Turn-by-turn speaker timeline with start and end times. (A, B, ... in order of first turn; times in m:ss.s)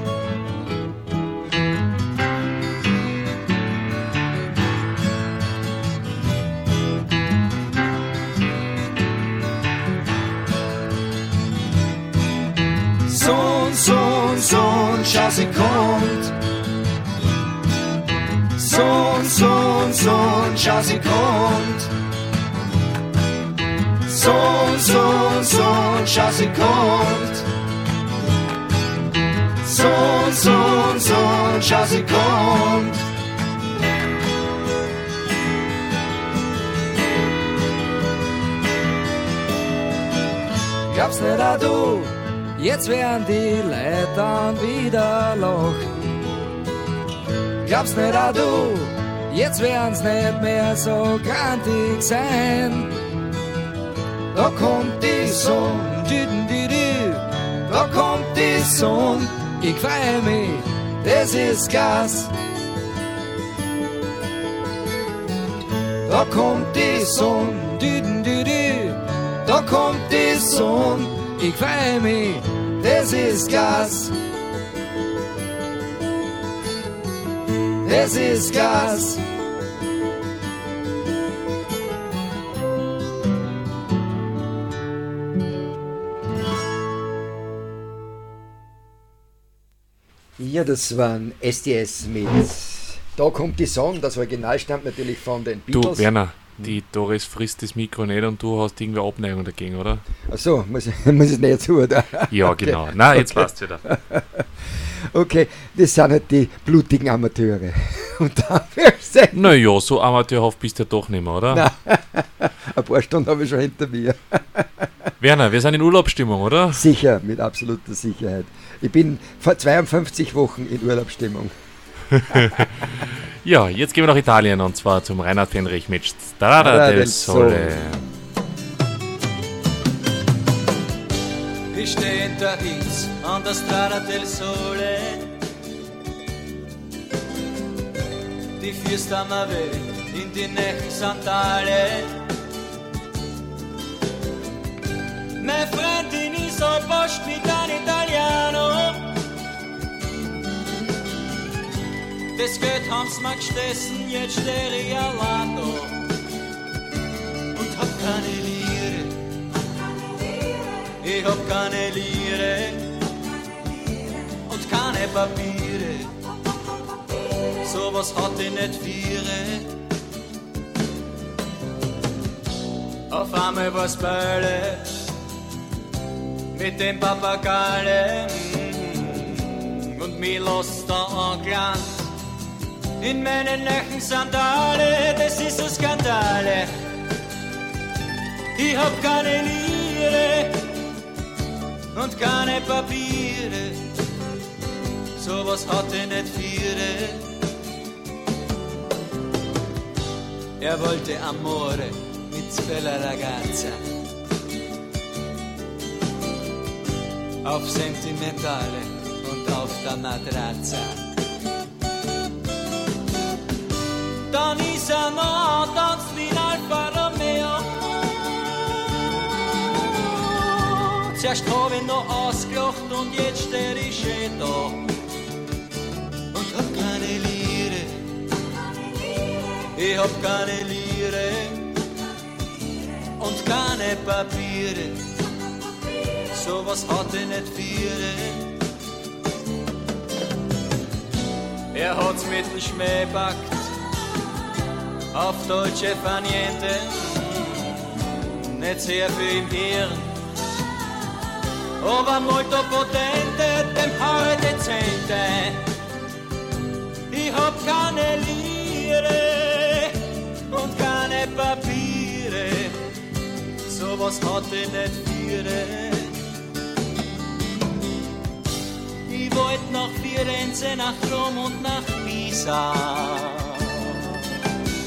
0:13.0-0:16.3 A
0:18.6-0:21.9 A
0:24.0-0:27.4 A
0:29.6-0:33.0 A
0:40.9-0:45.8 A
0:47.6-0:52.9 A
0:54.3-1:02.3 A
1:06.0-1:14.1 A
1:17.8-1:19.2 A
1:30.4-1:36.1 B
1:35.7-1:40.0 C
1:40.3-1:44.4 B
1:42.3-1:43.8 C
1:45.1-1:49.5 B
1:49.3-1:51.6 C
1:51.5-1:54.7 B
1:55.2-1:56.8 C
1:56.7-2:01.5 B
2:02.1-2:02.9 C
2:03.4-2:08.0 C
2:06.6-2:07.8 B
2:11.7-2:15.2 D
2:18.6-2:22.1 D
2:25.4-2:29.0 D
2:32.4-2:36.0 D
2:37.6-2:39.1 D
2:41.0-2:42.8 D
2:44.5-2:46.1 D
2:47.7-2:49.6 D
2:53.1-2:54.8 D
2:56.5-2:59.1 D
3:00.0-3:02.0 D
3:03.0-3:06.7 D
3:08.6-3:10.5 D
3:12.0-3:13.8 D
3:15.2-3:17.2 D
3:20.6-3:23.8 D
3:27.4-3:31.0 D
3:34.3-3:38.2 D
3:41.2-3:44.8 D
3:46.3-3:47.9 D
3:49.8-3:51.6 D
3:53.2-3:54.9 D
3:56.4-3:58.4 D
4:01.7-4:03.6 D
4:05.1-4:07.8 D
4:08.5-4:10.1 D
4:11.8-4:15.6 D
4:17.1-4:19.9 D
4:20.5-4:22.7 D
4:23.7-4:26.1 D
4:29.1-4:33.7 D